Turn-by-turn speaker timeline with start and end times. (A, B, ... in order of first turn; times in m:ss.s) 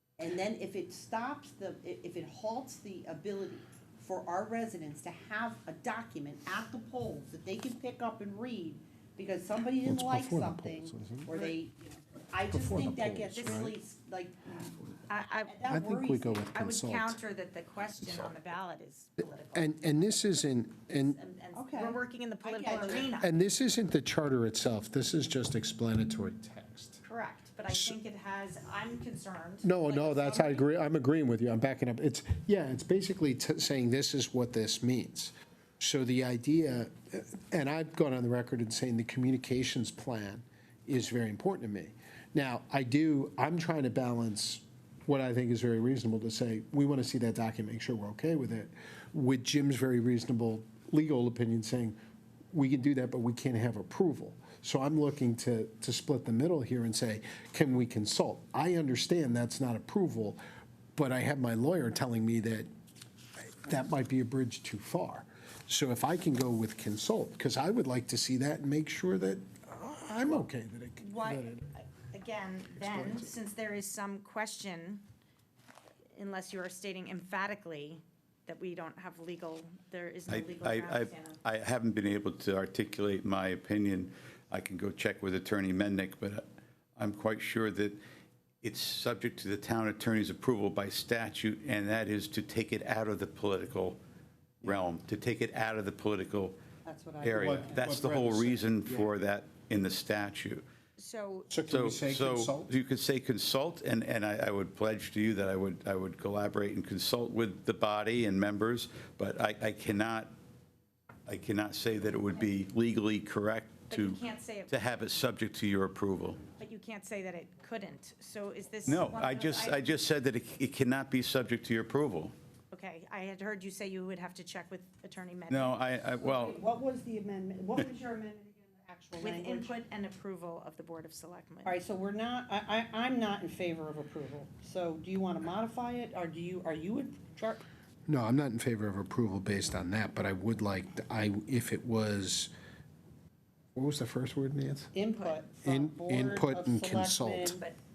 0:00.2-0:16.5 A
0:09.8-0:11.3 B
0:12.5-0:13.8 B
0:13.4-0:13.7 C
0:15.1-0:15.6 C
0:15.7-0:17.2 B
0:16.5-0:23.3 C
0:19.5-0:21.2 B
0:21.5-0:23.1 A
0:23.2-0:27.0 B
0:27.0-0:30.6 C
0:27.7-0:27.9 B
0:29.6-0:52.0 B
0:52.5-1:00.4 B
1:00.9-1:02.7 B
1:03.4-1:11.6 B
1:11.0-1:15.0 C
1:12.8-1:13.3 B
1:16.2-1:21.4 C
1:20.3-1:26.4 D
1:27.0-1:28.0 D
1:28.6-1:34.0 D
1:34.6-1:36.6 D
1:36.8-1:37.8 A
1:37.2-1:40.6 D
1:37.3-1:39.1 B
1:41.0-1:41.5 C
1:41.5-1:42.7 B
1:41.6-1:50.3 D
1:51.2-1:56.4 D
1:53.9-1:54.8 C
1:56.6-1:59.8 C
1:58.8-2:02.3 D
2:02.7-2:05.8 C
2:05.5-2:06.6 D
2:06.2-2:09.7 A
2:09.2-2:11.8 C
2:11.6-2:17.6 A
2:18.1-2:22.5 B
2:23.7-2:24.9 B
2:24.9-2:27.6 A
2:25.1-2:25.5 C
2:25.6-2:27.6 B